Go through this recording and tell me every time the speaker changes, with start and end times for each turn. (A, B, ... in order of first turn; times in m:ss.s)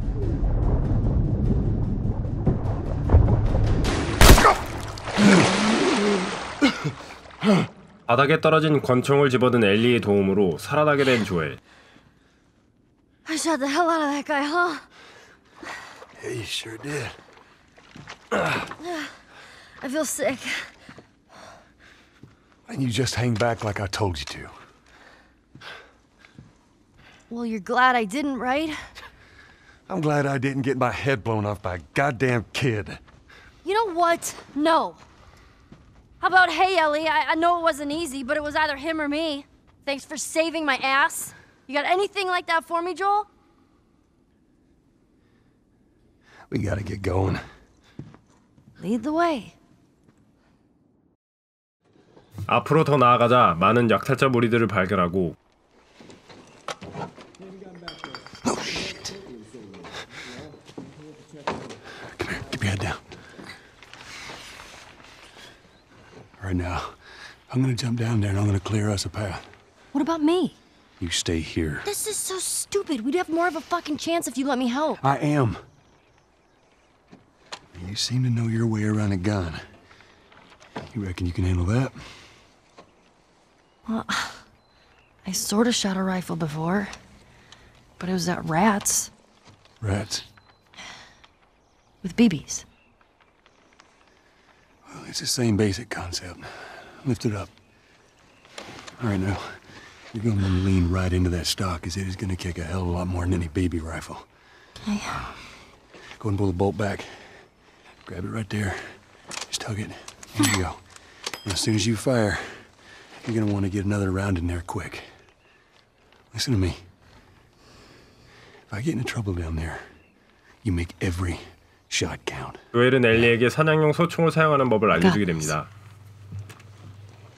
0:08.1-0:11.6 A
0:13.2-0:14.8 B
0:16.2-0:17.2 C
0:18.8-0:19.2 B
0:19.8-0:20.7 B
0:22.7-0:24.5 C
0:27.3-0:28.8 B
0:29.9-0:33.0 C
0:33.6-0:35.0 B
0:36.2-0:43.3 B
0:46.5-0:47.4 C
0:48.8-0:49.6 B
0:52.5-0:55.3 A
0:58.4-0:59.0 C
1:02.2-1:03.0 C
1:06.4-1:09.5 C
1:09.9-1:10.6 B
1:11.0-1:11.9 C
1:11.8-1:15.0 B
1:15.0-1:15.6 C
1:17.7-1:19.6 C
1:20.9-1:22.3 C
1:23.8-1:24.4 B
1:25.2-1:26.9 B
1:28.0-1:29.1 B
1:29.8-1:30.2 C
1:32.0-1:32.6 B
1:34.8-1:37.5 C
1:39.0-1:44.3 C
1:44.8-1:45.2 B
1:46.2-1:47.4 C
1:48.0-1:50.8 C
1:51.4-1:52.7 C
1:53.2-1:55.1 C
1:56.3-1:56.8 C
1:58.7-1:59.9 C
2:00.6-2:02.6 C
2:02.7-2:05.7 A
2:05.0-2:05.5 B